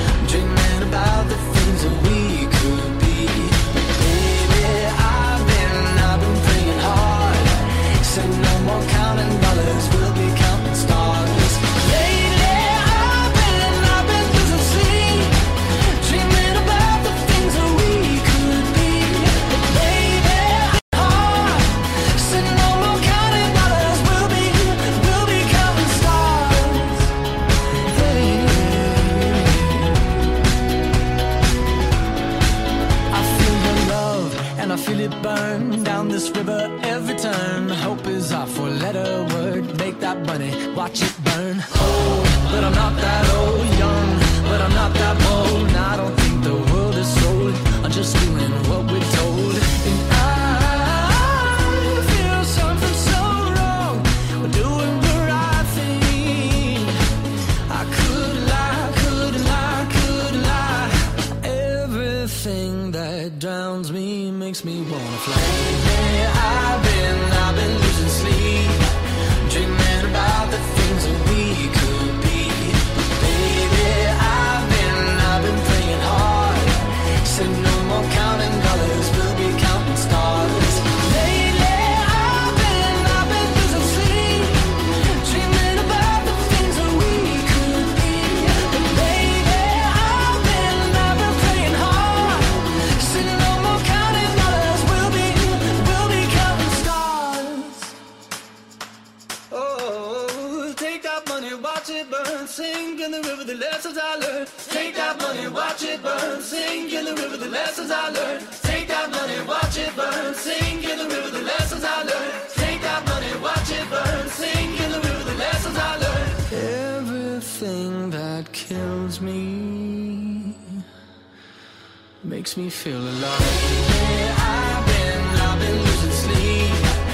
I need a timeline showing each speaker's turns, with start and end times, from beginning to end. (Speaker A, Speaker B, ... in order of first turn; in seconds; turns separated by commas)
Speaker A: 0.2-27.1, Speaker A: 27.9-30.2, Speaker A: 33.1-57.0, Speaker A: 57.7-68.9, Speaker A: 69.4-97.9, Speaker A: 99.5-120.8, Speaker A: 122.2-127.0